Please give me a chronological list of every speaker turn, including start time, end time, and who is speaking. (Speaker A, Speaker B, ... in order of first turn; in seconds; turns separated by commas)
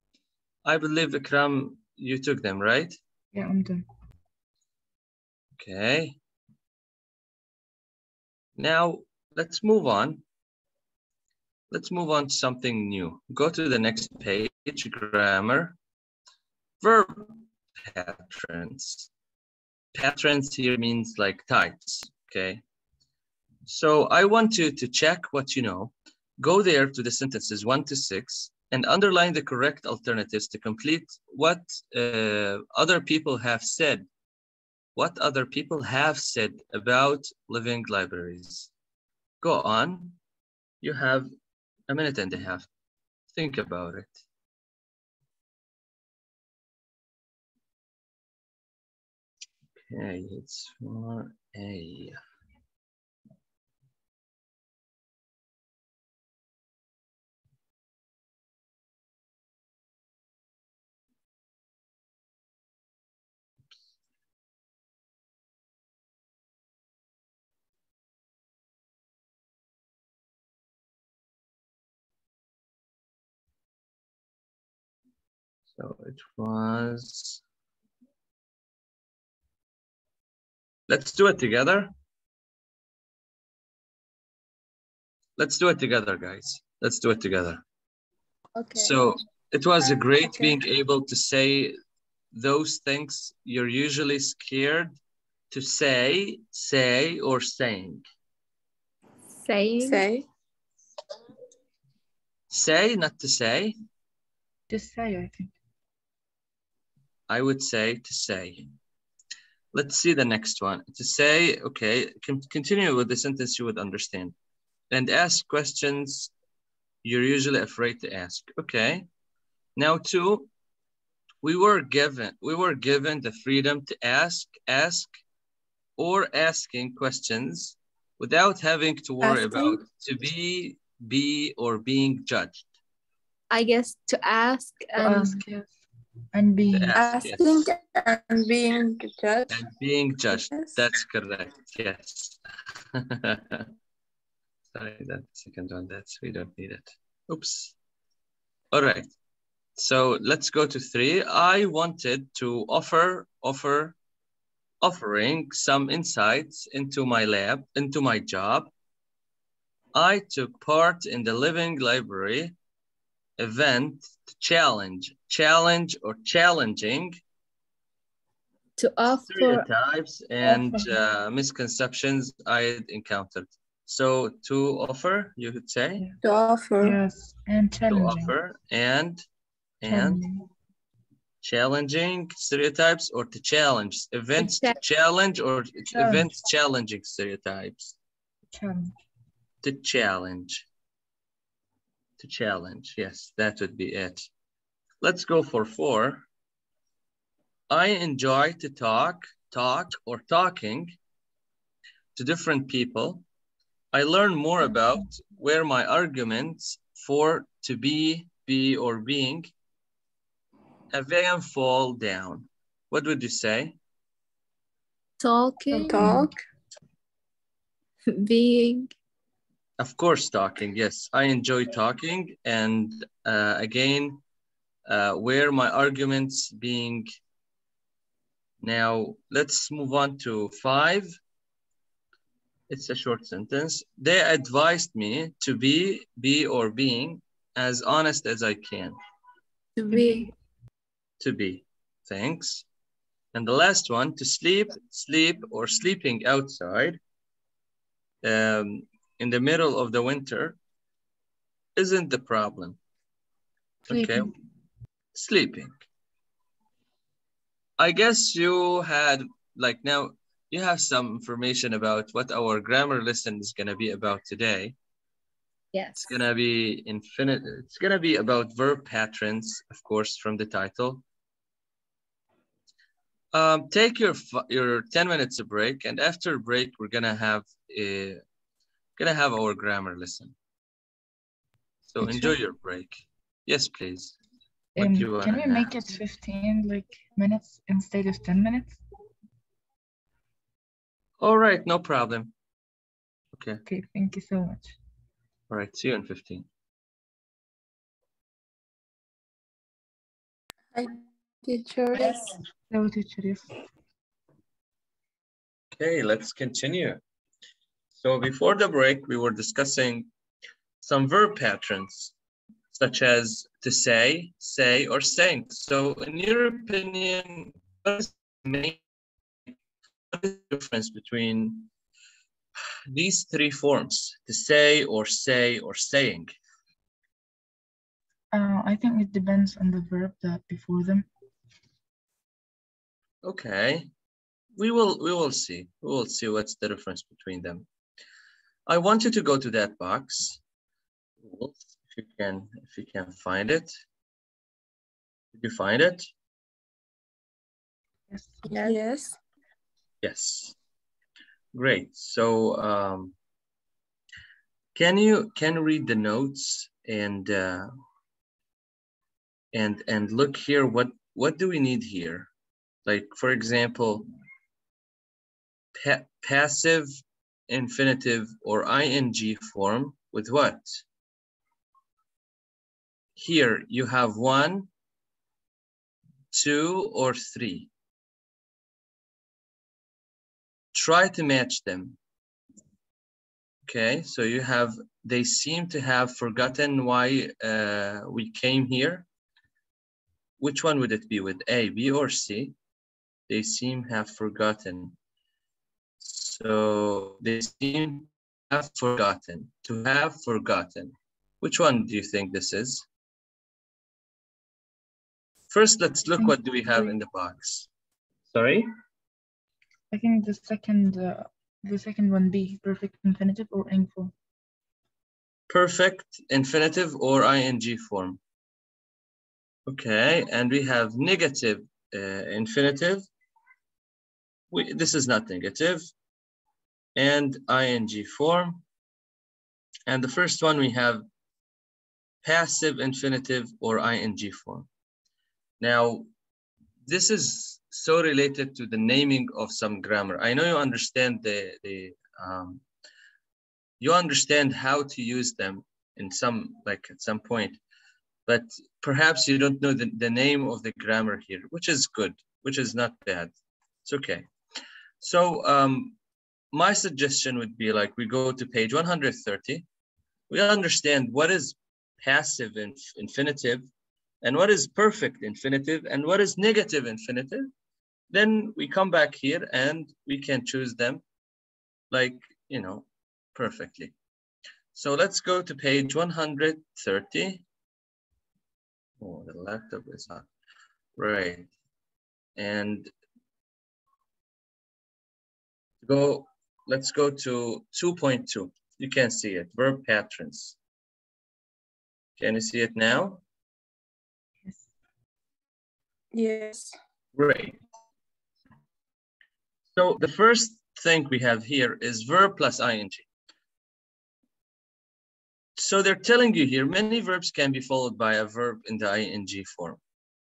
Speaker A: 0.7-3.0, Speaker B: 3.3-3.8, Speaker A: 5.6-6.2, Speaker A: 8.6-10.2, Speaker A: 11.7-15.8, Speaker A: 16.8-19.1, Speaker A: 19.9-22.6, Speaker A: 23.7-34.1, Speaker A: 35.0-38.7, Speaker A: 39.4-40.2, Speaker A: 40.8-41.3, Speaker A: 41.9-42.7, Speaker A: 43.3-44.2, Speaker A: 49.9-52.2, Speaker A: 75.8-77.4, Speaker A: 80.9-81.9, Speaker A: 85.4-87.6, Speaker C: 88.6-89.1, Speaker A: 88.8-91.8, Speaker C: 90.2-90.6, Speaker A: 92.3-95.0, Speaker A: 95.5-98.0, Speaker C: 99.4-100.0, Speaker D: 99.8-100.3, Speaker A: 102.5-103.7, Speaker B: 104.7-105.5, Speaker A: 107.3-108.7, Speaker A: 109.7-114.3, Speaker A: 114.9-116.3, Speaker A: 117.0-119.1, Speaker A: 119.8-120.5, Speaker A: 121.4-125.1, Speaker A: 126.0-132.7, Speaker D: 129.2-129.8, Speaker C: 133.5-135.4, Speaker B: 135.0-135.8, Speaker B: 136.3-137.2, Speaker A: 136.7-137.7, Speaker D: 136.9-139.6, Speaker A: 139.5-142.4, Speaker D: 140.3-140.8, Speaker A: 142.9-143.7, Speaker A: 144.7-147.8, Speaker A: 148.7-149.1, Speaker A: 149.8-153.9, Speaker A: 154.8-158.7, Speaker A: 159.9-162.6, Speaker A: 163.4-167.2, Speaker C: 168.8-169.7, Speaker A: 169.3-176.1, Speaker B: 170.4-170.9, Speaker D: 176.2-177.0, Speaker B: 176.8-178.3, Speaker A: 177.9-179.2, Speaker A: 179.8-180.2, Speaker B: 179.9-180.5, Speaker A: 181.4-188.0, Speaker C: 184.4-184.8, Speaker B: 185.9-186.3, Speaker B: 188.5-189.0, Speaker A: 189.6-190.7, Speaker A: 192.2-194.3, Speaker A: 195.0-196.3, Speaker A: 197.7-201.0, Speaker A: 202.2-203.2, Speaker A: 203.9-209.5, Speaker A: 210.9-213.8, Speaker C: 215.2-216.2, Speaker B: 215.7-216.3, Speaker D: 215.9-216.3, Speaker C: 218.1-218.9, Speaker A: 219.8-224.2, Speaker A: 224.9-227.1, Speaker A: 228.6-231.2, Speaker A: 232.7-238.9, Speaker C: 239.8-240.3, Speaker A: 241.2-242.7, Speaker A: 243.3-247.0, Speaker A: 248.2-250.6, Speaker A: 251.8-252.8, Speaker B: 253.9-254.3, Speaker A: 253.9-254.3, Speaker A: 255.2-255.7, Speaker A: 257.8-264.8, Speaker C: 265.7-266.1, Speaker A: 266.0-271.0, Speaker A: 273.3-278.2, Speaker A: 279.0-280.3, Speaker A: 281.9-284.2, Speaker B: 282.0-282.4, Speaker B: 284.8-288.8, Speaker A: 284.8-285.9, Speaker A: 291.2-292.3, Speaker A: 293.3-293.6, Speaker B: 293.7-294.8, Speaker A: 295.5-296.5, Speaker D: 300.7-302.4, Speaker B: 302.7-303.5, Speaker A: 305.8-307.0, Speaker A: 308.0-310.1, Speaker A: 310.8-312.1, Speaker A: 312.7-318.8, Speaker A: 320.1-321.7, Speaker A: 322.9-326.3, Speaker B: 328.3-331.1, Speaker A: 333.2-333.9, Speaker A: 334.6-337.7, Speaker A: 338.7-340.4, Speaker A: 341.2-343.7, Speaker A: 345.4-346.1, Speaker B: 348.1-348.8, Speaker D: 348.5-349.2, Speaker A: 350.0-350.6, Speaker A: 351.5-353.1, Speaker A: 354.8-357.7, Speaker A: 359.5-362.3, Speaker A: 362.9-364.1, Speaker A: 365.8-366.9, Speaker A: 367.5-370.8, Speaker A: 373.2-374.7, Speaker A: 376.3-377.7, Speaker A: 380.7-382.0, Speaker A: 383.7-389.1, Speaker A: 390.4-392.6, Speaker A: 393.3-395.0, Speaker A: 396.0-402.9, Speaker A: 405.5-407.7, Speaker B: 406.2-406.9, Speaker A: 408.3-408.7, Speaker B: 409.9-414.1, Speaker A: 415.5-418.2, Speaker A: 419.7-423.1, Speaker A: 424.5-425.9, Speaker A: 427.0-428.6, Speaker A: 429.9-431.0, Speaker A: 432.2-434.7, Speaker A: 435.6-436.1, Speaker A: 436.9-442.6, Speaker A: 443.8-447.6, Speaker A: 448.3-453.3, Speaker A: 453.9-454.3, Speaker A: 455.0-456.0, Speaker A: 456.5-459.6, Speaker A: 460.3-463.7, Speaker A: 464.2-467.5, Speaker A: 468.1-471.0, Speaker A: 471.9-473.9, Speaker A: 474.7-477.4, Speaker A: 479.0-480.3, Speaker A: 481.0-481.5, Speaker A: 482.4-482.9, Speaker A: 485.8-490.6, Speaker A: 492.2-493.2, Speaker D: 496.1-496.8, Speaker A: 497.1-497.6, Speaker A: 499.8-503.1, Speaker A: 505.6-509.8